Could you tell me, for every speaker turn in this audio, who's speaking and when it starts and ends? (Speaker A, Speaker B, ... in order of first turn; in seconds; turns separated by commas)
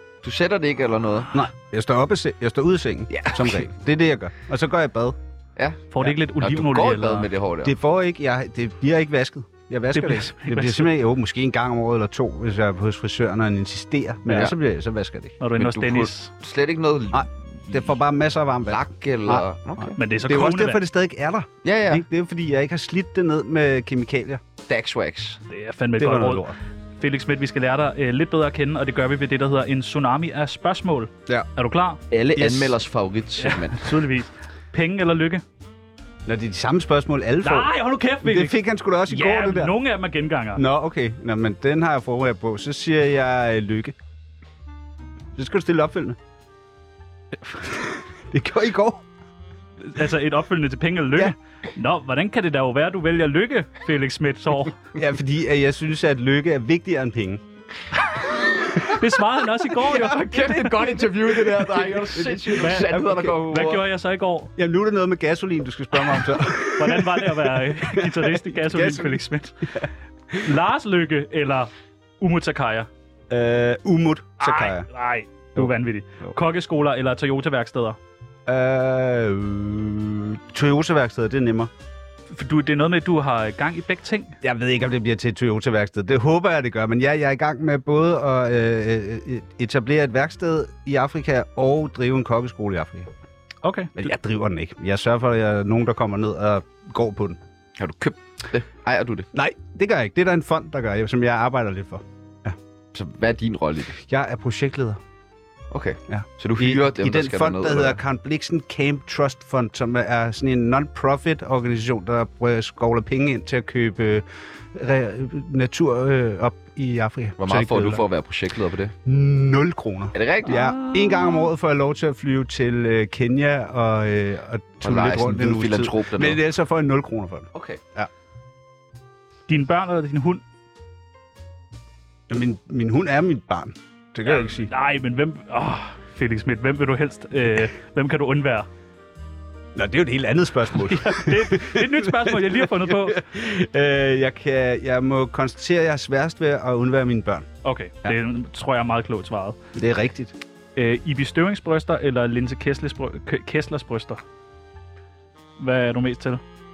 Speaker A: 0.2-1.4, Speaker B: 1.3-5.2, Speaker A: 3.1-3.6, Speaker A: 5.5-7.7, Speaker C: 5.9-7.3, Speaker B: 7.6-15.4, Speaker C: 9.9-10.9, Speaker A: 14.3-14.5, Speaker C: 15.4-16.3, Speaker A: 15.6-17.8, Speaker B: 17.1-24.4, Speaker A: 18.7-19.9, Speaker C: 19.9-20.8, Speaker A: 21.6-22.0, Speaker A: 24.7-25.4, Speaker C: 25.5-26.4, Speaker B: 26.0-26.6, Speaker C: 27.0-32.0, Speaker A: 32.1-33.9, Speaker B: 32.3-32.8, Speaker C: 33.4-35.4, Speaker B: 36.2-39.7, Speaker C: 37.4-40.6, Speaker B: 40.5-44.0, Speaker B: 45.3-46.2, Speaker B: 47.8-49.0, Speaker C: 49.8-54.8, Speaker B: 54.9-57.4, Speaker C: 58.8-60.2, Speaker B: 59.8-63.4, Speaker A: 59.8-63.9, Speaker C: 62.5-64.5, Speaker B: 64.5-70.4, Speaker C: 66.0-69.8, Speaker C: 70.4-72.9, Speaker B: 73.3-74.9, Speaker C: 74.4-78.0, Speaker B: 78.5-81.7, Speaker C: 82.3-84.4, Speaker B: 84.4-93.1, Speaker C: 93.6-94.0, Speaker B: 94.0-97.4, Speaker A: 97.8-99.3, Speaker B: 99.3-102.5, Speaker A: 102.9-104.0, Speaker B: 104.0-105.0, Speaker A: 105.7-108.0, Speaker B: 106.1-118.0, Speaker A: 117.4-118.9, Speaker B: 119.0-128.1, Speaker A: 120.1-120.7, Speaker C: 120.8-121.4, Speaker A: 124.8-126.4, Speaker A: 127.5-127.8, Speaker C: 129.5-130.4, Speaker B: 132.3-134.7, Speaker C: 134.2-138.7, Speaker B: 139.7-147.5, Speaker C: 140.7-143.2, Speaker C: 147.6-149.6, Speaker B: 149.7-150.3, Speaker C: 150.8-154.2, Speaker C: 155.6-156.4